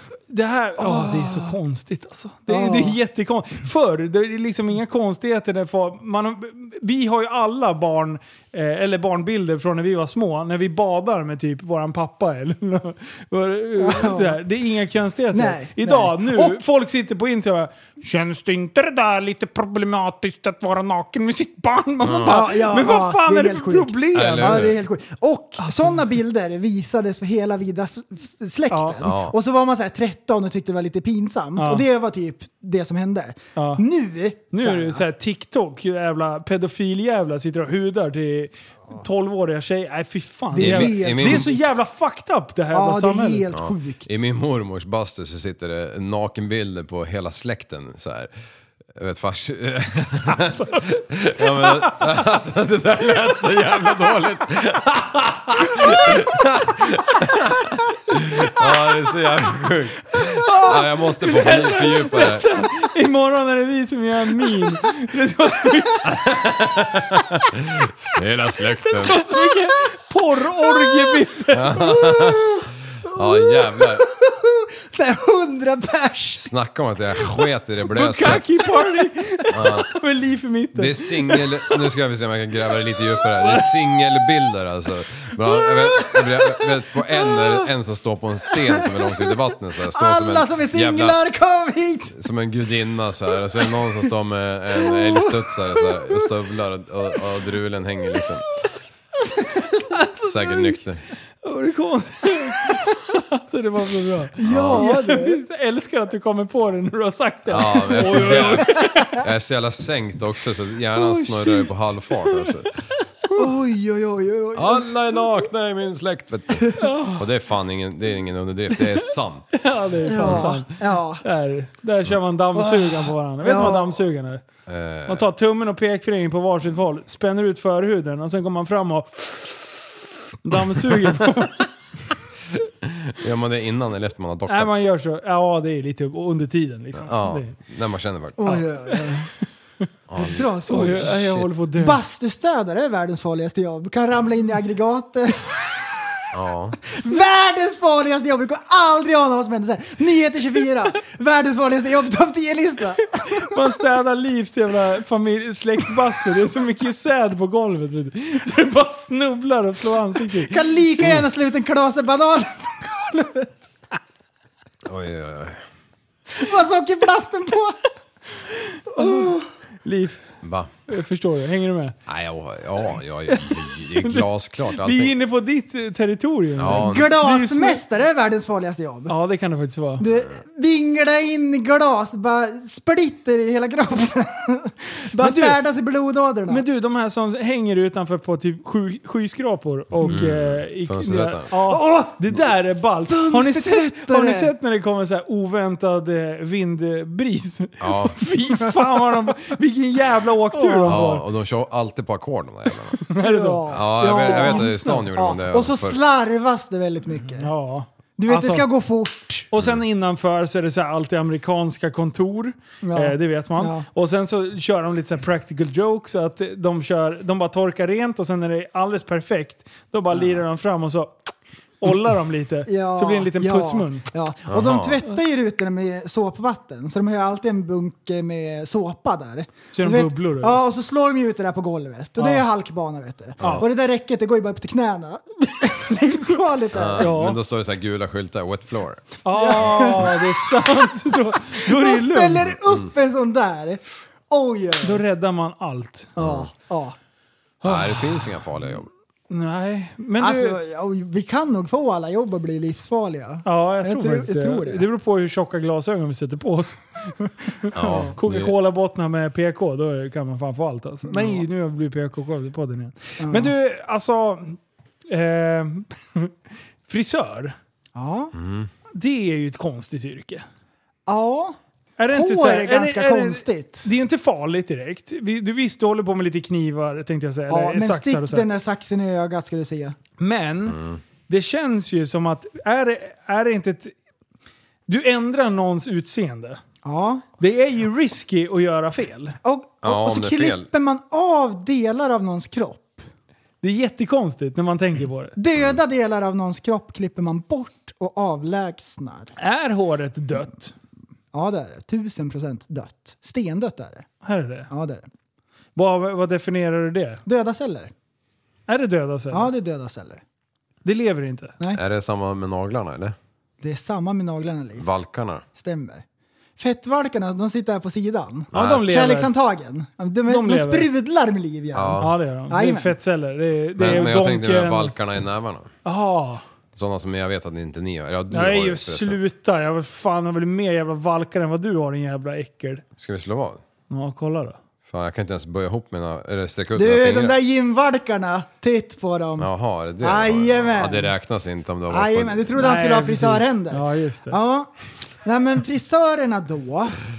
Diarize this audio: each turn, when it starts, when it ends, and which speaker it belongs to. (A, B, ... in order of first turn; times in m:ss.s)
0:00.3-0:24.7 A
0:00.8-0:01.5 B
0:02.5-0:03.0 B
0:13.8-0:14.4 B
0:15.3-0:16.6 B
0:22.0-0:22.4 C
0:22.2-0:35.0 B
0:24.1-0:24.8 C
0:25.6-0:26.0 A
0:28.7-0:29.0 A
0:29.0-0:29.4 C
0:31.6-0:31.8 A
0:33.6-0:33.8 A
0:34.5-0:43.4 A
0:40.5-0:41.6 B
0:40.6-0:41.5 C
0:42.7-0:44.2 B
0:43.5-0:48.3 C
0:48.9-1:02.6 C
0:50.4-0:50.8 A
0:51.5-0:51.9 A
1:00.4-1:06.1 A
1:06.0-1:09.3 C
1:08.8-1:11.8 A
1:10.7-1:11.1 B
1:11.5-1:14.0 C
1:11.8-1:16.5 B
1:16.4-1:18.5 C
1:17.9-1:21.7 A
1:19.5-1:19.9 C
1:20.7-1:31.2 C
1:25.5-1:27.6 B
1:28.5-1:29.4 B
1:29.9-1:32.2 B
1:32.1-1:38.4 C
1:34.8-1:36.3 B
1:39.9-1:40.8 A
1:40.2-1:41.0 C
1:41.4-1:49.2 A
1:44.4-1:45.4 B
1:44.4-1:44.9 C
1:47.5-1:52.7 C
1:47.9-1:49.2 B
1:50.9-1:51.7 B
1:53.4-1:55.4 B
1:54.5-2:00.5 C
1:56.8-1:57.2 A
1:59.5-2:04.4 A
2:00.0-2:01.2 B
2:02.5-2:04.0 B
2:04.7-2:05.3 C
2:05.1-2:11.7 A
2:12.8-2:14.8 C
2:14.5-2:17.5 A
2:16.9-2:18.6 C
2:18.4-2:19.3 B
2:20.1-2:21.5 C
2:20.2-2:21.2 B
2:20.7-2:22.0 A
2:21.7-2:25.7 B
2:26.3-2:26.8 C
2:26.9-2:33.5 B
2:33.4-2:40.6 A
2:40.4-2:43.6 B
2:44.8-2:45.6 C
2:46.3-2:47.8 B
2:48.9-2:49.5 B
2:48.9-2:49.3 A
2:49.8-2:50.3 A
2:50.4-2:50.7 C
2:50.9-2:52.0 A
2:52.1-2:55.1 C
2:53.3-2:57.8 A
2:56.6-2:57.1 C
2:56.7-2:59.1 B
2:59.1-3:00.0 A
3:00.0-3:06.6 B
3:05.2-3:05.6 A
3:06.5-3:21.2 A
3:10.0-3:11.5 C
3:11.6-3:12.4 B
3:13.1-3:14.5 B
3:17.8-3:18.2 C
3:18.6-3:19.2 B
3:20.5-3:21.0 B
3:20.8-3:23.0 C
3:23.0-3:25.1 A
3:23.2-3:27.5 B
3:23.7-3:26.0 C
3:27.3-3:28.7 A
3:28.2-3:29.5 B
3:29.5-3:41.1 A
3:32.8-3:33.8 B
3:41.8-3:44.1 A
3:42.6-3:57.1 B
3:44.5-3:45.0 C
3:49.7-3:50.6 A
3:52.2-3:52.4 A
3:53.4-3:53.6 C
3:53.4-3:53.6 A
3:56.7-3:59.2 C
3:57.0-3:57.4 A
3:59.2-4:02.5 A
3:59.3-4:05.0 B
4:02.6-4:02.9 C
4:04.8-4:06.1 A
4:06.2-4:07.0 B
4:06.2-4:06.5 C
4:07.6-4:08.4 A
4:07.6-4:08.9 C
4:09.3-4:10.6 A
4:10.2-4:14.8 B
4:13.4-4:26.3 A
4:17.7-4:18.5 C
4:17.8-4:18.1 B
4:21.1-4:21.4 B
4:23.2-4:23.5 B
4:26.9-4:27.5 A
4:27.9-4:28.3 B
4:28.3-4:28.7 C
4:28.9-4:30.4 A
4:31.1-4:31.6 B
4:32.0-4:38.5 A
4:32.1-4:33.9 B
4:37.5-4:40.0 B
4:40.2-4:43.9 A
4:40.7-4:41.0 C
4:44.9-4:46.6 A
4:46.8-4:47.2 B
4:47.4-4:49.4 A
4:49.4-4:53.0 B
4:49.8-4:50.7 C
4:53.6-4:55.3 A
4:55.4-4:59.3 B
4:59.4-5:00.7 A
5:01.3-5:04.1 B
5:04.2-5:04.7 A
5:04.7-5:05.1 B
5:05.8-5:07.2 A
5:07.2-5:07.9 B
5:08.7-5:09.5 A
5:09.3-5:10.2 B
5:10.8-5:11.5 A
5:11.7-5:13.2 C
5:13.6-5:14.8 B
5:14.8-5:15.4 C
5:15.6-5:16.0 B
5:16.6-5:22.9 B
5:18.5-5:18.9 C
5:18.5-5:19.3 A
5:20.3-5:20.9 A
5:21.7-5:22.1 C
5:22.0-5:24.9 A
5:23.8-5:25.7 C
5:25.8-5:26.4 A
5:26.7-5:29.2 C
5:28.3-5:32.8 A
5:33.0-5:33.6 C
5:33.9-5:34.6 A
5:34.9-5:37.4 C
5:36.7-5:39.5 B
5:39.4-5:42.6 C
5:40.0-5:41.1 B
5:41.9-5:47.0 B
5:42.6-5:44.4 A